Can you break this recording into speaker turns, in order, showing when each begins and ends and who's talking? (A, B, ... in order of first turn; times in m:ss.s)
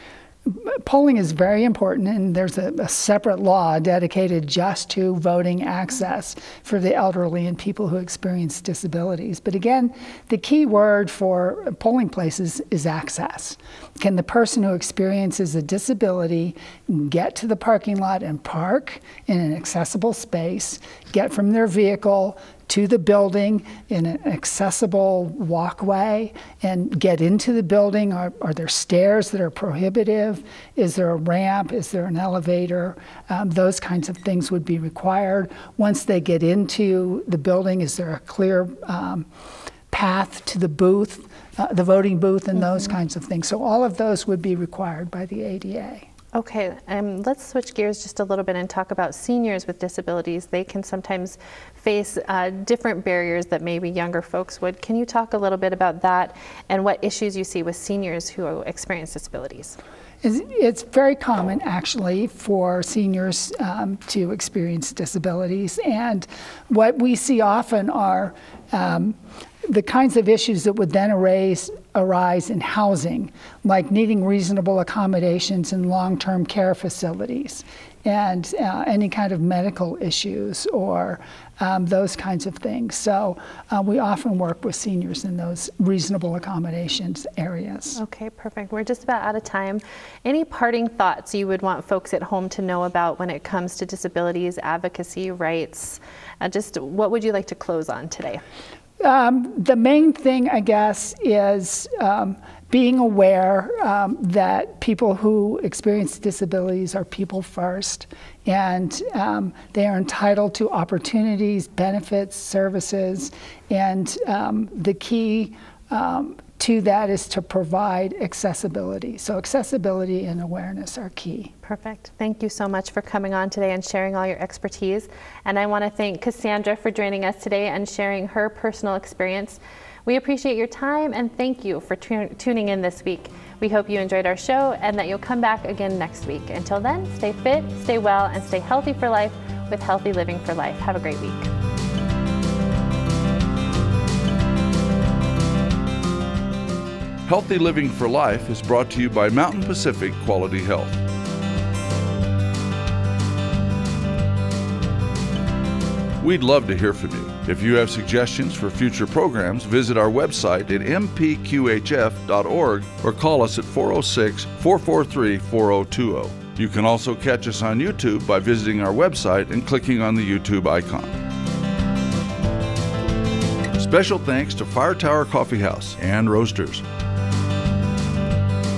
0:00.5-0:39.3 A
0:39.9-0:46.1 A
0:46.3-0:59.8 B
1:00.2-1:28.0 A
1:28.0-1:38.4 B
1:39.0-2:01.5 A
2:01.6-2:21.5 B
2:27.3-2:31.0 C
2:36.2-2:51.2 C
2:53.8-2:56.8 C